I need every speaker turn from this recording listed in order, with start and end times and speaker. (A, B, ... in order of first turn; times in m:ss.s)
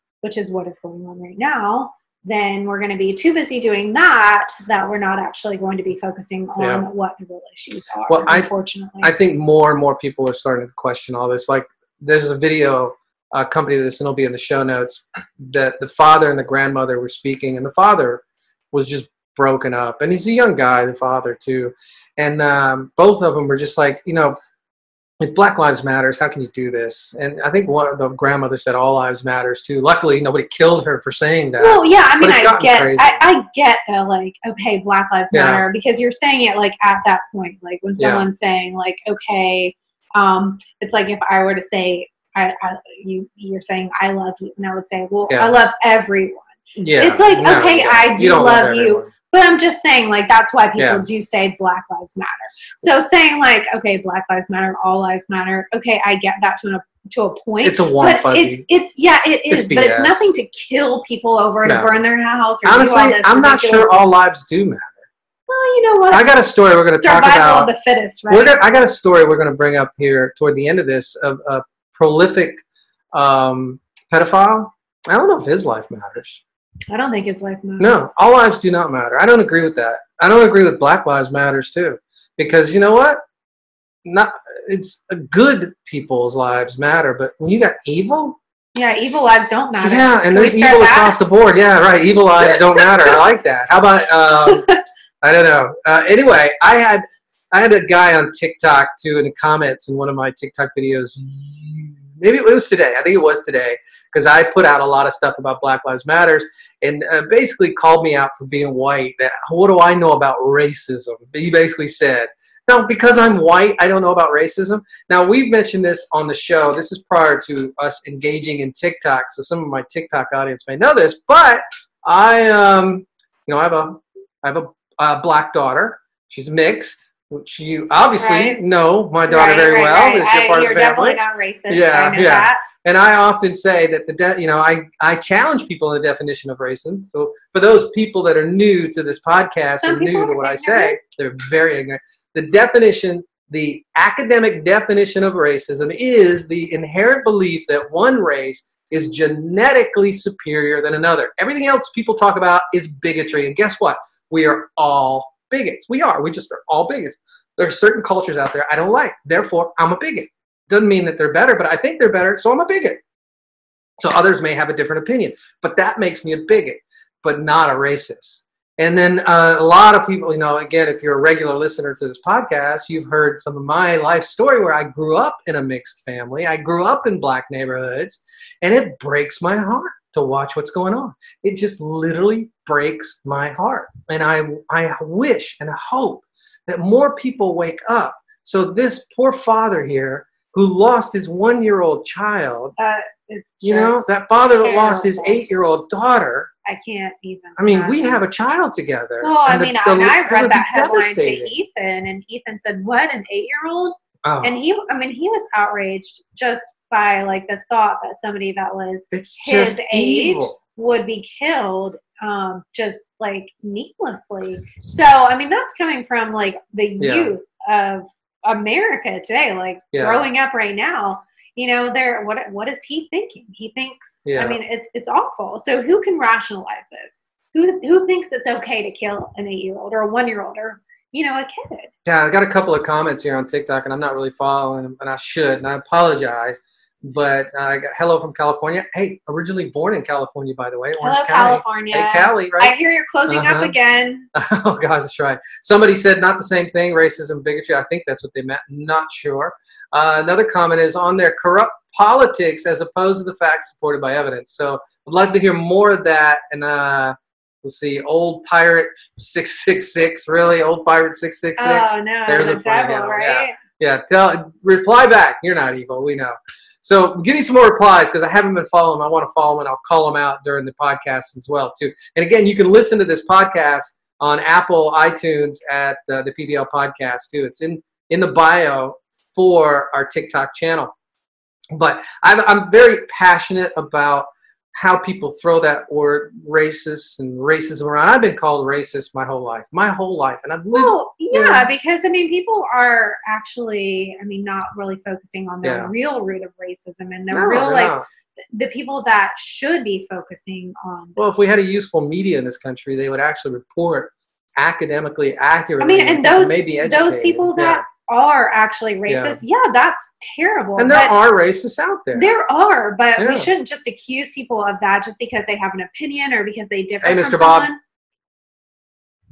0:00.2-0:09.1 A
0:06.6-0:06.8 B
0:08.1-0:24.4 B
0:25.2-0:33.2 B
0:31.6-1:04.0 A
0:35.3-0:35.6 B
0:38.0-0:38.2 B
0:45.3-0:45.6 B
0:46.8-0:49.1 B
0:50.8-0:51.0 B
0:57.6-0:58.6 B
0:59.5-1:00.4 B
1:01.6-1:01.9 B
1:02.6-1:05.0 B
1:05.5-1:06.3 A
1:06.1-1:07.7 B
1:07.0-1:08.6 A
1:08.3-1:16.4 B
1:16.9-1:18.1 A
1:17.8-1:23.2 B
1:24.0-1:28.4 B
1:28.7-1:31.2 A
1:29.8-1:34.7 B
1:32.4-1:33.2 A
1:34.4-1:34.8 A
1:35.2-2:43.0 B
2:08.2-2:08.6 A
2:09.3-2:12.6 A
2:19.8-2:21.0 A
2:44.0-3:12.8 B
3:12.8-3:15.4 A
3:13.6-3:16.5 B
3:16.6-3:18.2 A
3:17.6-3:21.6 B
3:19.2-3:51.9 A
3:24.2-3:24.5 B
3:29.1-3:30.6 B
3:37.0-3:37.3 B
3:39.9-3:40.2 B
3:44.2-3:44.6 B
3:52.0-4:02.8 B
4:01.0-4:04.3 A
4:03.3-4:03.7 B
4:04.3-4:40.9 B
4:21.6-4:23.6 A
4:41.7-4:51.7 B
4:50.7-4:58.0 A
4:55.6-4:55.9 B
4:57.3-4:58.0 B
4:58.5-5:01.2 A
5:01.2-5:07.8 B
5:05.8-5:11.2 A
5:09.1-5:09.4 B
5:10.8-5:12.3 B
5:12.1-5:17.8 A
5:13.2-5:13.5 B
5:17.0-5:17.7 B